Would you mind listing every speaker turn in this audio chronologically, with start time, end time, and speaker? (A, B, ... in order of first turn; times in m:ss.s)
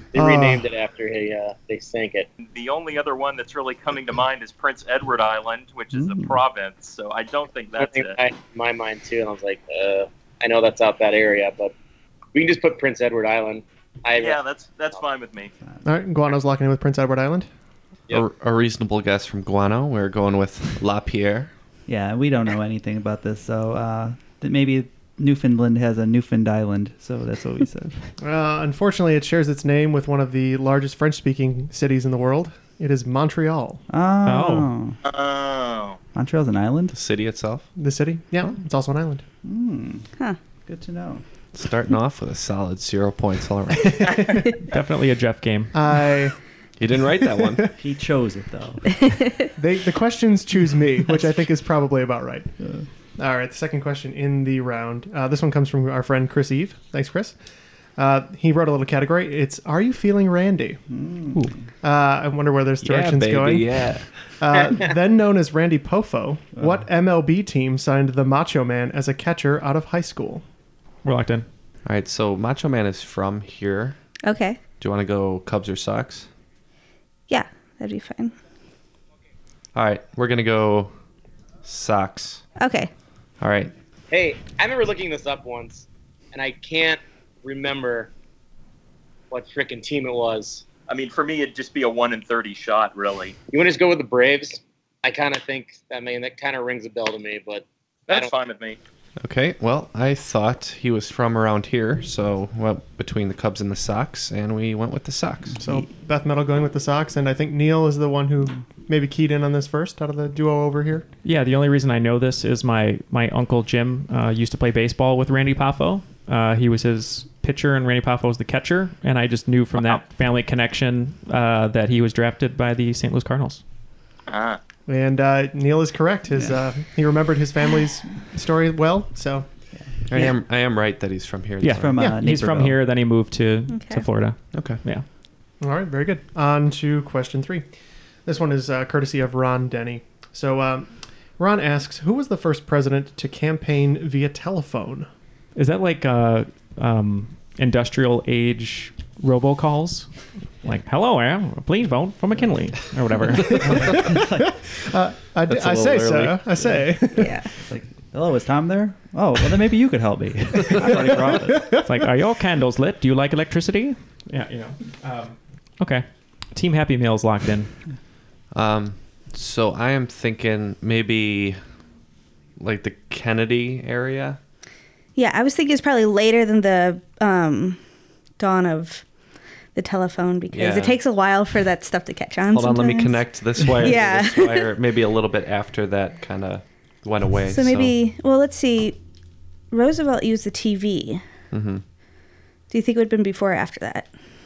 0:00.1-0:02.3 A
0:00.2-0:00.6 B
0:02.4-0:08.2 C
0:05.9-0:06.4 D
0:07.8-0:11.7 A
0:12.3-0:14.4 A
0:14.2-0:15.5 C
0:15.8-0:17.5 B
0:18.1-0:21.5 E
0:21.9-0:28.0 D
0:28.2-0:33.8 B
0:33.9-0:35.0 D
0:34.2-0:34.7 F
0:35.0-0:36.0 C
0:36.1-0:36.9 D
0:36.9-0:37.6 E
0:37.8-0:39.2 B
0:39.4-0:40.1 D
0:40.6-0:41.2 D
0:41.5-0:44.2 E
0:44.0-0:44.4 B
0:44.7-0:45.7 F
0:45.7-0:46.4 B
0:46.8-0:47.7 E
0:47.8-0:48.9 D
0:49.6-0:52.5 B
0:52.6-0:52.8 D
0:53.2-0:57.4 B
0:58.0-1:00.8 B
1:00.9-1:01.6 D
1:01.8-1:03.7 B
1:02.8-1:04.1 E
1:04.4-1:10.4 B
1:06.6-1:06.8 D
1:11.0-1:11.4 F
1:11.8-1:14.0 E
1:14.2-1:14.6 G
1:14.8-1:16.3 E
1:17.3-1:18.3 G
1:19.7-1:20.9 E
1:21.6-1:22.4 E
1:22.6-1:22.9 G
1:23.4-1:23.7 E
1:24.1-1:28.1 A
1:29.3-1:30.6 A
1:30.9-1:33.4 C
1:33.5-1:38.3 A
1:38.1-1:38.8 C
1:39.2-1:45.5 E
1:45.6-1:45.9 D
1:45.6-1:51.0 B
1:51.2-2:03.6 F
2:04.3-2:04.6 C
2:04.9-2:09.4 B
2:09.7-2:10.3 D
2:10.1-2:11.9 E
2:11.6-2:15.0 F
2:11.7-2:12.8 D
2:13.7-2:14.0 G
2:14.5-2:14.8 E
2:15.6-2:17.6 B
2:18.2-2:25.1 B
2:25.6-2:30.1 F
2:30.6-2:33.8 F
2:33.5-2:34.5 D
2:33.7-2:34.2 B
2:34.7-2:37.3 B
2:35.5-2:36.4 E
2:37.2-2:37.5 G
2:37.6-2:41.7 D
2:41.8-2:47.7 F
2:48.5-2:51.6 E
2:52.6-2:54.4 E
2:55.2-2:57.8 G
2:58.4-2:59.0 G
2:59.7-3:04.8 G
3:00.5-3:01.0 E
3:02.5-3:07.9 E
3:07.4-3:09.0 G
3:09.7-3:11.2 G
3:11.5-3:11.8 E
3:12.7-3:14.1 G